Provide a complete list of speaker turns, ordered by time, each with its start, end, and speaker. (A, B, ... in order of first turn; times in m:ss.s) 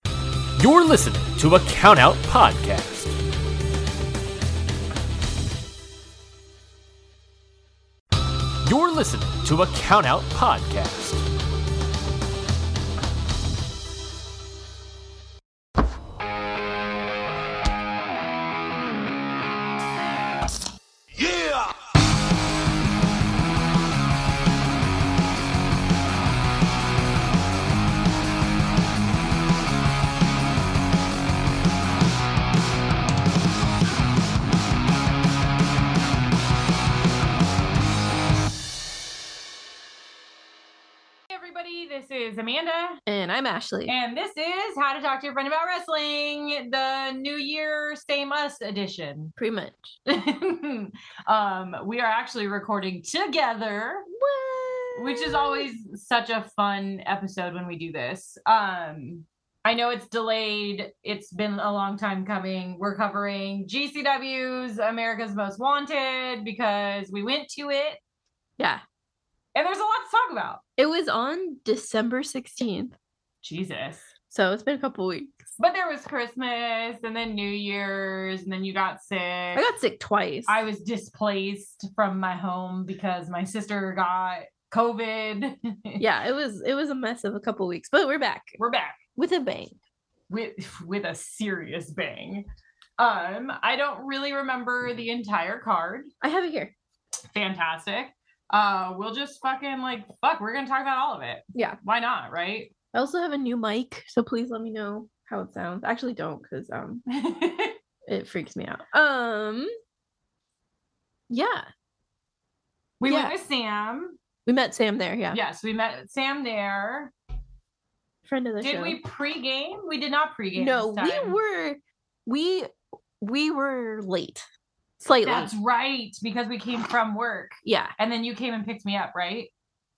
0:00.6-0:03.2 A
0:08.6-0:11.3 A
0:41.3-0:43.0 B
0:43.0-0:43.9 C
0:43.9-0:49.3 B
0:49.4-0:50.0 C
0:50.1-0:54.1 B
0:54.1-0:55.7 C
0:55.0-1:08.0 B
1:08.6-1:08.8 C
1:09.5-1:10.6 B
1:10.8-1:13.0 C
1:13.4-1:14.1 B
1:14.3-1:15.5 C
1:15.6-1:19.6 B
1:19.5-1:20.5 C
1:20.5-1:26.0 B
1:26.0-1:28.6 C
1:28.6-1:29.0 B
1:29.2-1:29.8 C
1:30.3-1:32.4 B
1:33.0-1:36.1 B
1:36.2-1:36.7 C
1:37.3-1:42.7 B
1:41.5-1:41.8 C
1:42.9-1:47.0 C
1:47.1-1:47.7 B
1:48.1-1:49.7 C
1:51.3-1:51.7 C
1:53.0-1:54.2 B
1:53.1-1:53.3 C
1:54.4-1:55.4 C
1:55.3-1:57.1 B
1:58.2-1:59.0 C
1:58.6-2:01.4 B
2:00.6-2:04.4 C
2:05.0-2:05.5 C
2:05.2-2:09.5 B
2:07.6-2:07.9 C